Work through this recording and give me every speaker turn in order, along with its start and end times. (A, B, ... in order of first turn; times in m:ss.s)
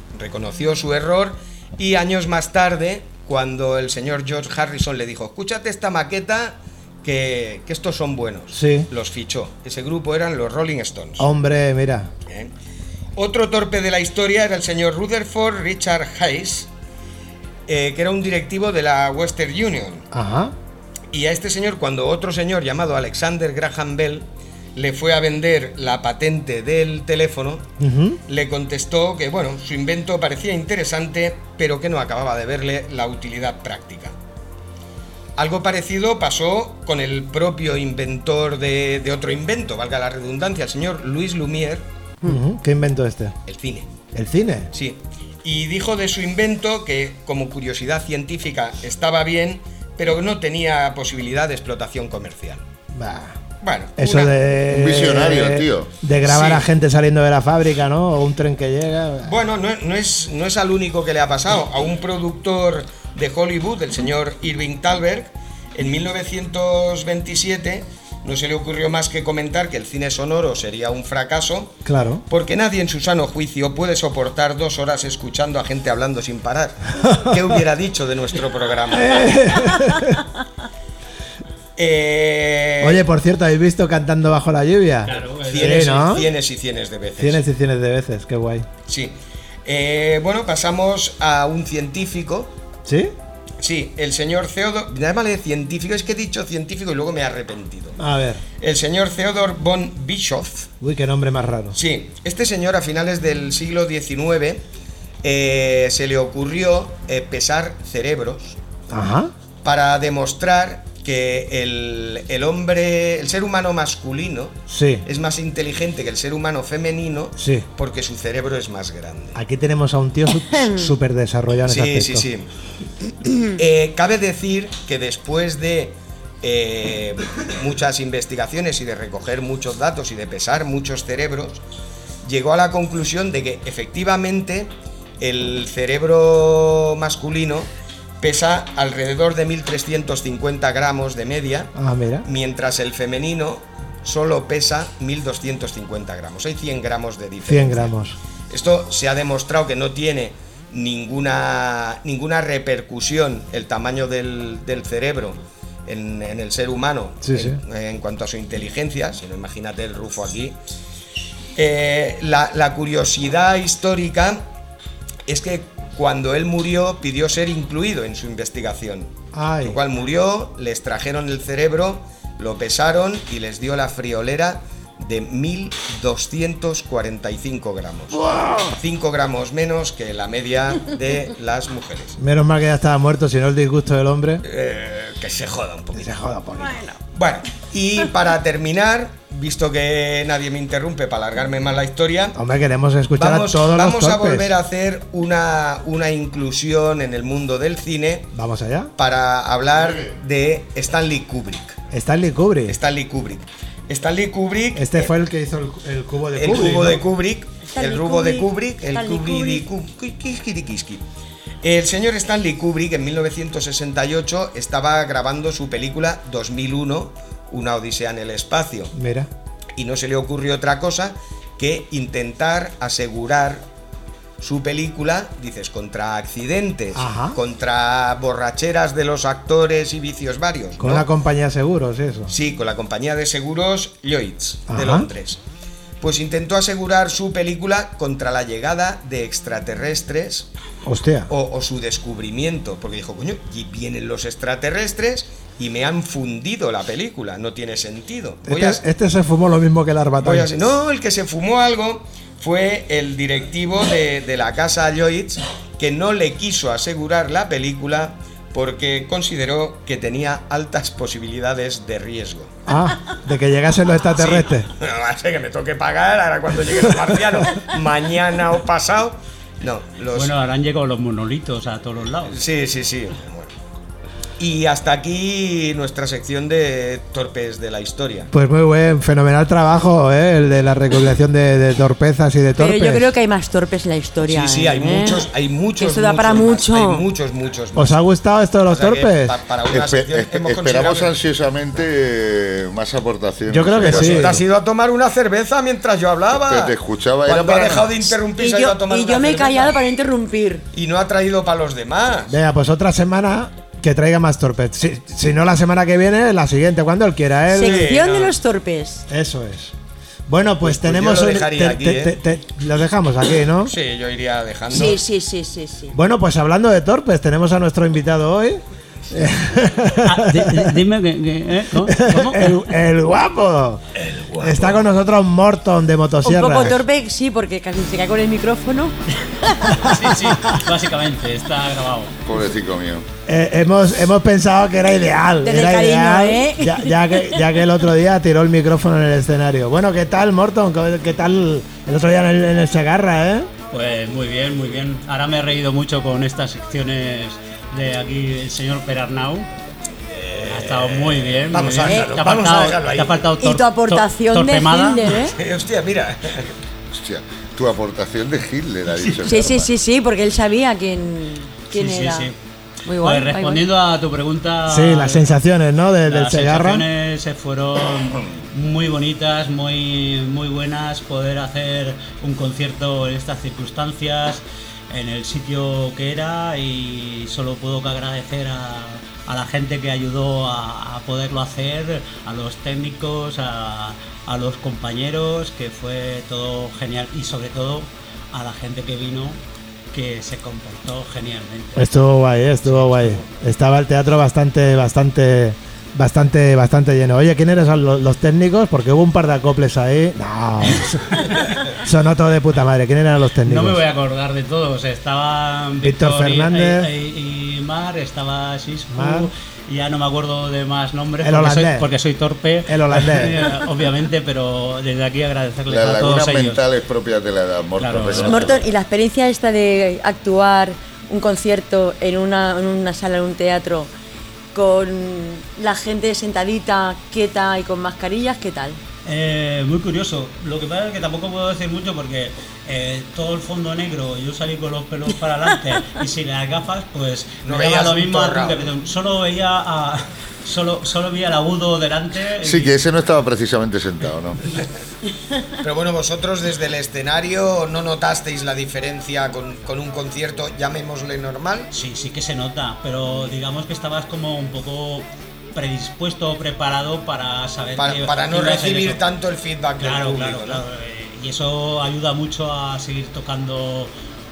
0:00.1-0:11.3 A
0:08.5-0:08.9 B
0:11.2-0:12.1 B
0:12.2-0:12.5 A
0:13.2-0:16.7 A
0:17.7-0:20.0 A
0:20.1-0:20.5 B
0:21.1-0:27.7 A
0:27.8-0:28.2 B
0:28.2-0:34.1 A
0:35.4-0:41.8 A
0:42.2-0:43.4 B
0:43.4-0:43.9 A
0:44.1-0:44.7 B
0:44.7-0:52.6 A
0:52.9-0:53.4 B
0:53.6-0:54.3 A
0:54.0-0:59.4 B
0:54.7-0:55.9 C
0:56.2-0:56.6 A
0:59.2-1:19.3 A
1:11.8-1:12.2 B
1:17.0-1:17.4 B
1:18.9-1:20.2 B
1:21.8-1:23.0 A
1:22.8-1:26.3 B
1:25.1-1:25.9 D
1:25.1-1:27.4 A
1:27.2-1:28.7 B
1:28.9-1:32.5 A
1:32.8-1:33.1 B
1:33.6-1:38.0 A
1:38.0-1:38.4 B
1:38.6-1:40.7 A
1:40.8-1:41.8 B
1:41.7-1:44.6 A
1:45.2-1:48.6 A
1:48.9-1:49.3 B
1:49.6-1:59.4 A
1:54.7-1:55.0 B
1:57.4-1:57.6 B
1:59.3-2:02.3 B
2:01.6-2:02.5 A
2:03.5-2:11.6 A
2:12.2-2:21.7 A
2:21.7-2:22.2 B
2:22.2-2:27.9 A
2:27.4-2:28.2 B
2:28.5-2:40.6 A
2:37.2-2:37.6 B
2:41.5-2:44.4 A
2:45.3-2:49.1 A
2:49.3-2:49.8 B
2:49.6-3:02.2 A
2:58.1-2:58.8 B
3:02.2-3:04.4 B
3:04.4-3:06.2 A
3:05.9-3:06.9 B
3:07.1-3:12.4 A
3:12.4-3:14.5 B
3:13.2-3:18.3 A
3:18.3-3:18.9 B
3:19.0-3:21.8 A
3:21.9-3:22.8 B
3:22.7-3:25.1 A
3:24.7-3:27.0 B
3:26.3-3:31.0 A
3:27.6-3:29.6 E
3:31.6-3:38.9 A
3:38.9-3:39.3 B
3:39.8-3:43.7 A
3:44.4-3:51.1 A
3:46.9-3:47.4 B
3:50.8-3:52.3 B
3:52.3-3:55.4 A
3:54.7-3:55.1 B
3:56.0-4:00.5 A
4:00.8-4:01.3 B
4:01.3-4:08.8 A
4:08.4-4:10.5 B
4:10.2-4:22.5 A
4:22.7-4:24.7 B
4:24.1-4:30.3 A
4:30.1-4:32.4 D
4:32.3-4:33.5 A
4:34.4-4:38.3 A
4:38.3-4:43.1 B
4:42.6-4:45.3 E
4:44.2-4:48.0 A
4:45.8-4:47.0 E
4:47.8-4:49.4 B
4:48.7-4:51.2 A
4:49.7-4:54.4 C
4:53.5-4:54.4 B
4:53.8-4:59.8 A
4:56.4-4:58.0 C
4:58.2-5:00.6 E
5:00.7-5:02.4 A
5:02.3-5:07.9 B
5:07.5-5:09.0 E
5:07.6-5:08.3 A
5:09.1-5:09.7 B
5:10.3-5:13.7 B
5:10.6-5:12.2 A
5:13.6-5:15.0 A
5:14.7-5:15.9 E
5:15.9-5:20.7 B
5:20.0-5:22.7 D
5:21.8-5:23.8 B
5:24.0-5:24.8 A
5:24.4-5:26.8 B
5:26.2-5:28.9 E
5:29.7-5:32.1 D
5:32.2-5:33.0 C
5:33.3-5:43.5 B
5:35.4-5:37.4 E
5:43.7-5:49.5 D
5:50.1-5:53.2 A
5:50.4-5:55.2 D
5:53.4-5:55.3 E
5:55.3-5:56.5 A
5:56.9-5:59.7 C
5:59.2-6:02.3 E
6:01.7-6:02.4 D
6:02.8-6:03.6 E
6:03.0-6:05.3 D
6:04.7-6:06.8 B
6:06.0-6:29.4 D
6:29.9-6:31.8 D
6:31.8-6:43.8 B
6:32.6-6:33.2 D
6:41.1-6:41.5 D
6:43.4-6:56.6 D
6:45.8-6:46.9 B
6:48.9-6:49.3 B
6:51.2-6:51.9 B
6:52.7-6:53.5 B
6:55.7-6:58.6 C
6:57.8-6:58.4 D
6:58.2-7:03.9 E
7:04.5-7:08.8 E
7:09.0-7:22.8 D
7:17.4-7:18.7 A
7:22.4-7:24.4 C
7:25.6-7:31.7 A
7:31.7-7:39.0 D
7:37.8-7:40.6 A
7:39.8-7:43.9 D